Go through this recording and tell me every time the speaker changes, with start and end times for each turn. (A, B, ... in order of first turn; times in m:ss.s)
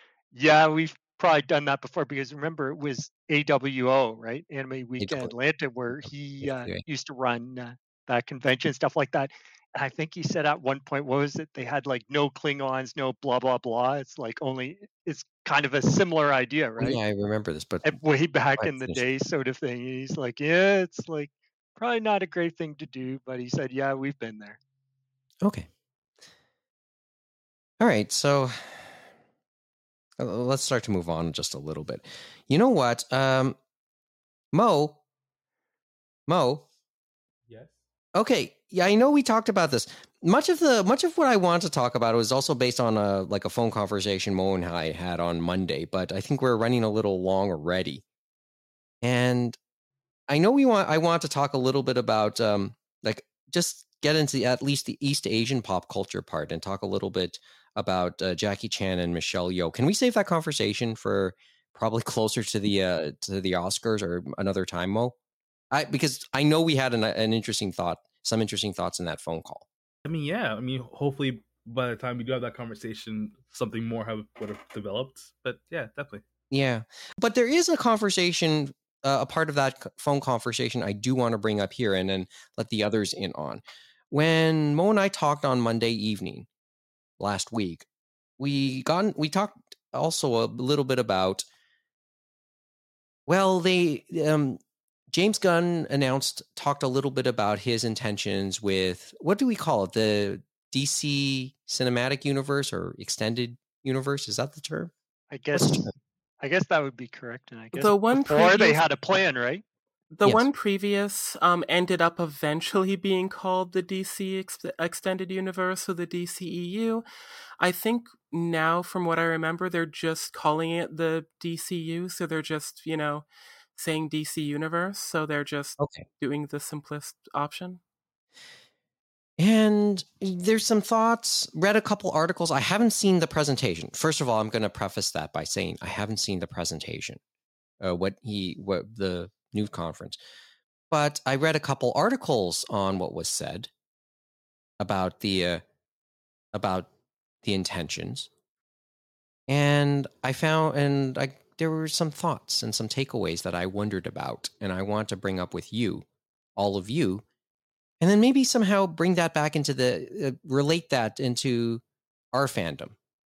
0:00.3-0:17.0 A
0:05.0-0:05.3 B
0:06.0-0:06.8 B
0:16.8-0:18.0 B
0:17.8-0:24.6 A
0:18.6-0:19.0 B
0:25.4-0:25.7 B
0:27.8-0:28.9 B
0:30.2-0:33.6 B
0:34.5-0:35.0 B
0:36.3-0:36.7 B
0:37.5-0:37.8 C
0:38.2-0:48.0 B
0:49.0-0:49.6 B
0:50.3-1:05.2 B
1:05.7-1:09.6 B
1:10.1-1:16.2 C
1:16.5-1:26.5 B
1:27.2-1:27.9 B
1:28.4-1:31.4 B
1:33.3-1:34.6 B
1:35.1-1:44.9 B
1:45.3-1:49.6 A
1:45.5-1:45.9 B
1:47.8-1:48.8 D
1:50.1-1:57.0 D
1:57.6-2:07.8 D
2:05.8-2:06.0 B
2:09.4-2:17.2 B
2:17.8-2:20.2 B
2:20.9-2:23.7 B
2:24.8-2:25.6 B
2:26.5-2:26.9 B
2:27.4-2:28.3 B
2:29.5-2:37.2 B
2:38.0-2:41.8 B
2:42.3-2:43.0 B